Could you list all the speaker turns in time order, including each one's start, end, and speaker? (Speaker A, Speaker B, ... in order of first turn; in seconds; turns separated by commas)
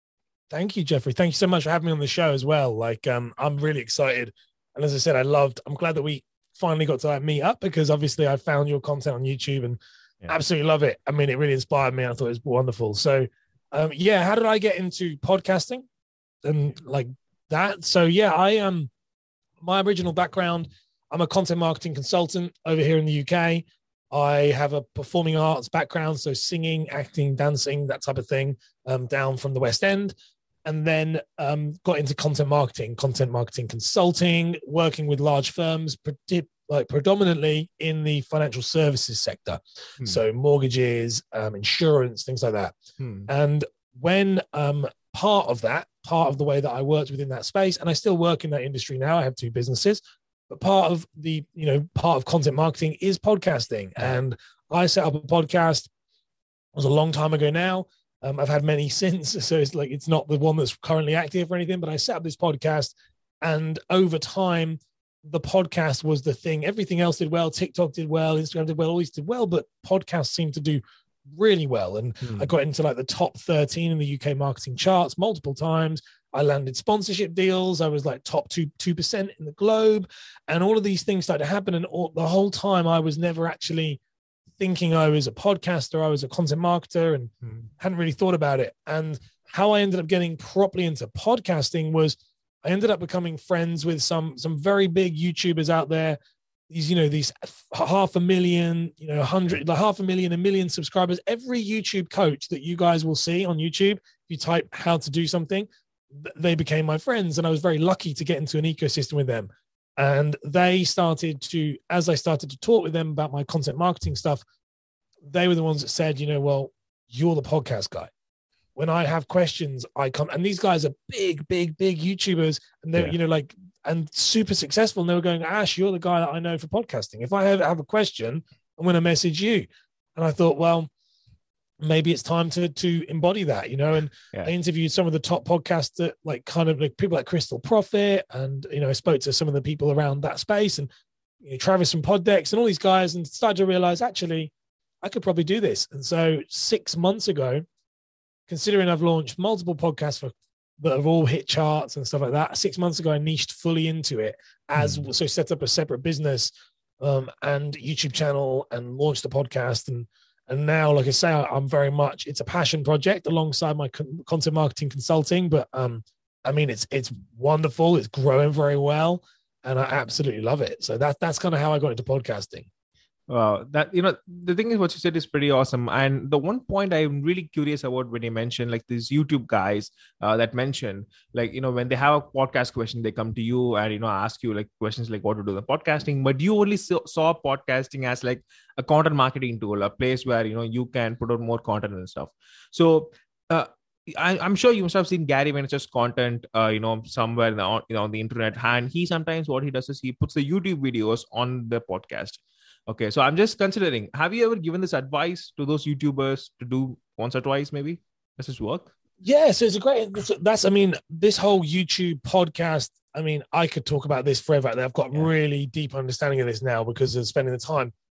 Speaker A: 0.5-15.8, Speaker A: 16.4-18.9, Speaker A: 19.6-30.1, Speaker A: 30.6-42.7, Speaker B: 43.0-43.3, Speaker A: 43.3-55.9, Speaker A: 56.7-84.0, Speaker B: 72.2-72.5, Speaker A: 84.6-96.2, Speaker B: 87.4-87.7, Speaker A: 96.7-114.4, Speaker A: 115.2-118.1, Speaker A: 118.8-130.9, Speaker A: 131.8-140.9, Speaker A: 141.4-147.6, Speaker A: 148.5-172.7, Speaker B: 154.8-155.0, Speaker B: 173.3-208.9, Speaker A: 209.2-217.9